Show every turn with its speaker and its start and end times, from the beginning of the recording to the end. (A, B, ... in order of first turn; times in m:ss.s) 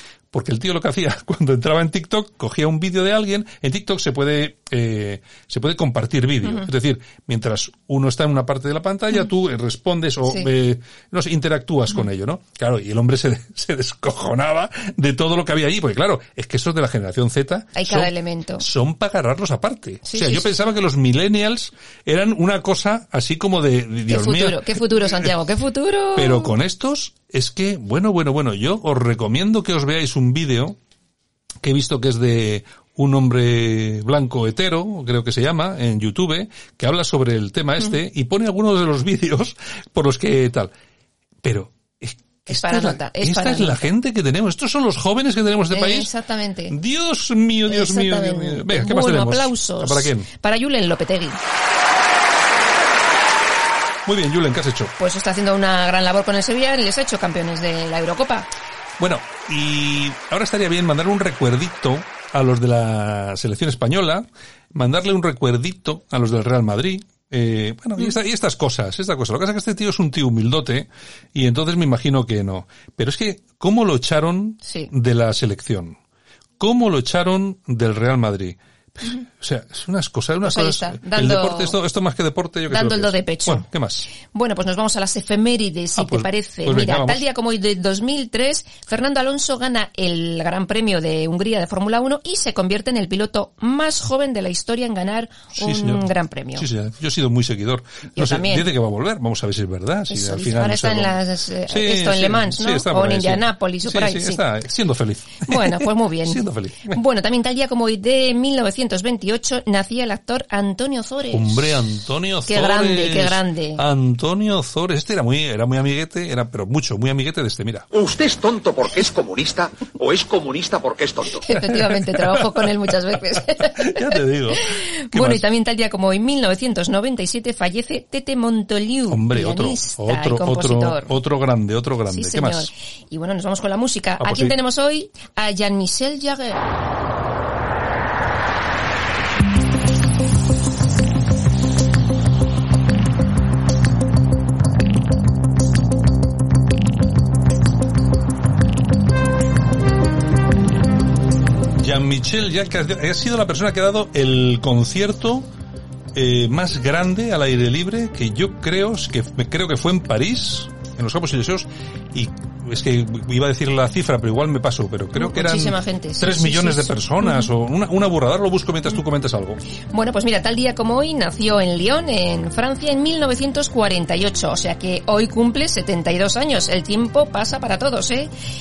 0:00.3-0:25.3 A
0:17.8-0:18.6 B
0:20.1-0:20.5 B
0:24.1-0:26.5 B
0:26.2-0:30.8 A
0:31.6-0:40.7 A
0:41.4-0:46.1 A
0:42.5-0:43.9 B
0:45.7-0:46.8 B
0:46.7-0:50.3 A
0:47.7-0:51.4 B
0:54.0-0:54.9 A
0:55.0-0:58.5 B
0:59.0-1:16.0 A
1:14.7-1:14.9 B
1:16.6-1:24.1 A
1:20.4-1:21.8 B
1:22.7-1:23.7 B
1:24.3-1:36.7 B
1:26.0-1:27.2 A
1:35.6-1:47.0 A
1:38.2-1:38.7 B
1:40.1-1:44.4 B
1:45.5-1:51.8 B
1:51.3-1:57.9 A
1:52.5-1:53.8 B
1:57.9-2:01.5 C
2:01.4-2:11.1 B
2:01.6-2:02.7 A
2:03.6-2:05.4 A
2:09.1-2:12.7 A
2:12.1-2:16.6 B
2:14.2-2:14.6 A
2:31.8-2:35.5 A
2:36.1-2:49.6 A
2:45.2-2:47.5 B
2:49.9-2:58.3 B